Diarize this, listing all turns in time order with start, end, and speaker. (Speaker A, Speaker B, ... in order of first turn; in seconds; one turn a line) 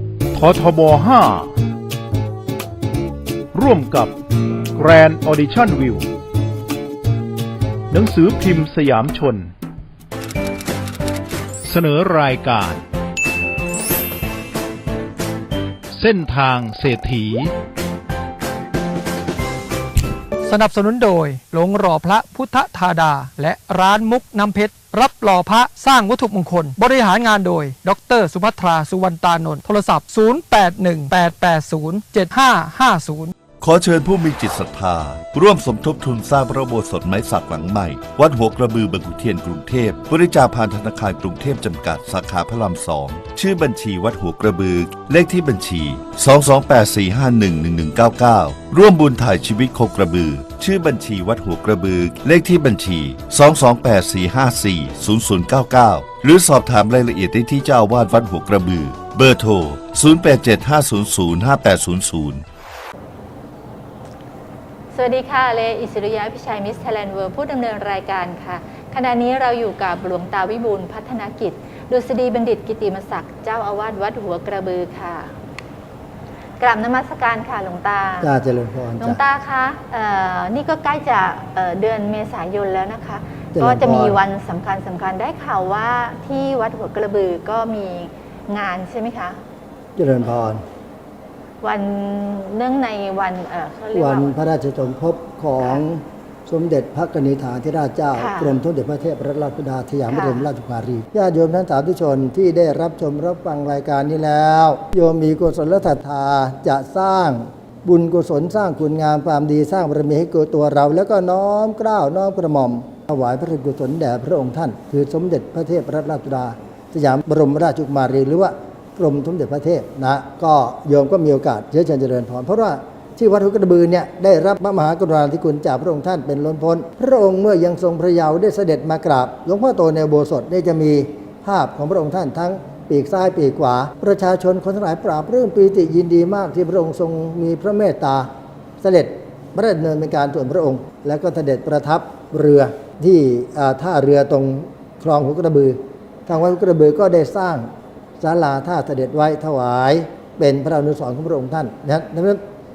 Speaker A: 0.5-1.2
Speaker A: 16.1-17.3
Speaker B: 20.4-33.3
Speaker C: 33.6-62.4
Speaker D: 64.9-75.3
Speaker D: 76.6-78.3
Speaker E: 78.2-79.2
Speaker D: 79.0-89.4
Speaker E: 83.5-84.2
Speaker E: 90.0-90.6
Speaker D: 91.6-94.4
Speaker E: 93.9-138.3
Speaker D: 98.2-98.6
Speaker D: 100.1-100.5
Speaker E: 138.8-147.7
Speaker E: 148.2-152.4